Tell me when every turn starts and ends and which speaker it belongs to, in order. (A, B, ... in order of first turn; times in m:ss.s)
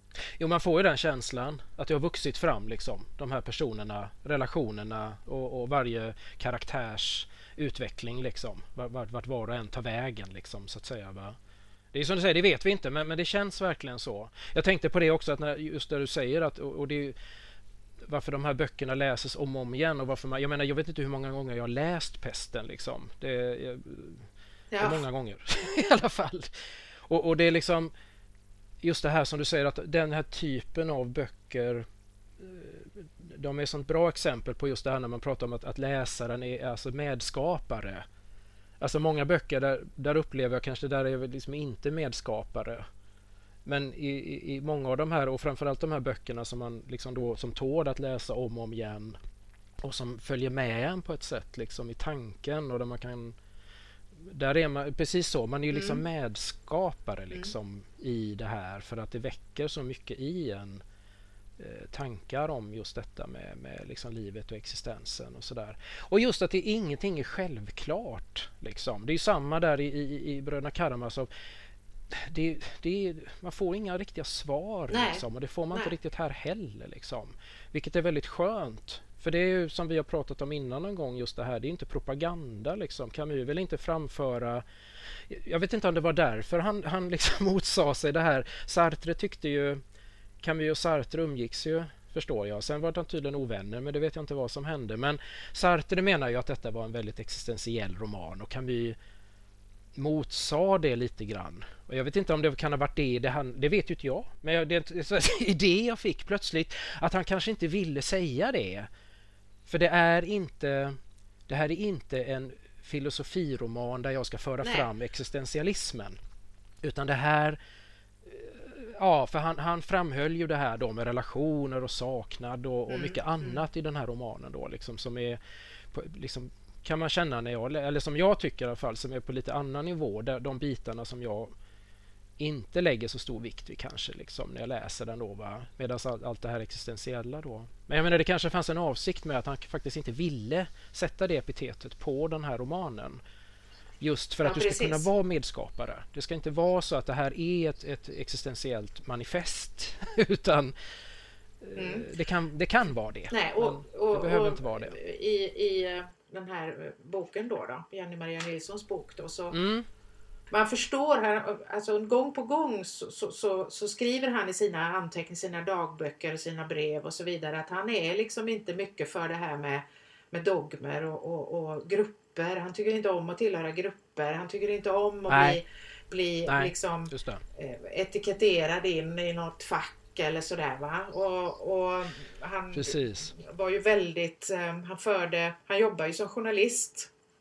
0:00.2-0:11.4 A
0:11.9-0:17.2 A
0:18.0-0:24.3 A
0:24.7-0:25.0 B
0:24.8-0:26.5 A
0:27.1-0:27.9 A
0:28.8-0:31.8 A
0:32.4-0:38.0 A
0:38.8-0:42.8 A
0:43.6-0:49.2 A
0:49.8-0:53.4 A
0:54.1-1:00.8 A
0:55.7-0:56.0 B
1:01.6-1:11.3 A
1:12.1-1:24.6 A
1:14.9-1:15.9 B
1:25.3-1:29.8 A
1:30.4-1:39.0 A
1:40.0-1:48.9 A
1:49.7-1:51.0 A
1:51.5-1:56.2 A
1:54.6-1:54.9 B
1:56.8-1:57.6 A
1:58.2-2:05.4 A
2:02.9-2:03.6 B
2:05.9-2:11.5 A
2:12.4-2:23.2 A
2:24.0-2:30.7 A
2:24.4-2:25.1 B
2:31.6-2:35.0 A
2:31.8-2:32.1 B
2:33.3-2:39.6 B
2:39.5-2:39.8 A
2:40.5-3:07.1 B
2:55.3-2:55.6 A
2:56.4-2:57.4 A
3:02.7-3:03.3 A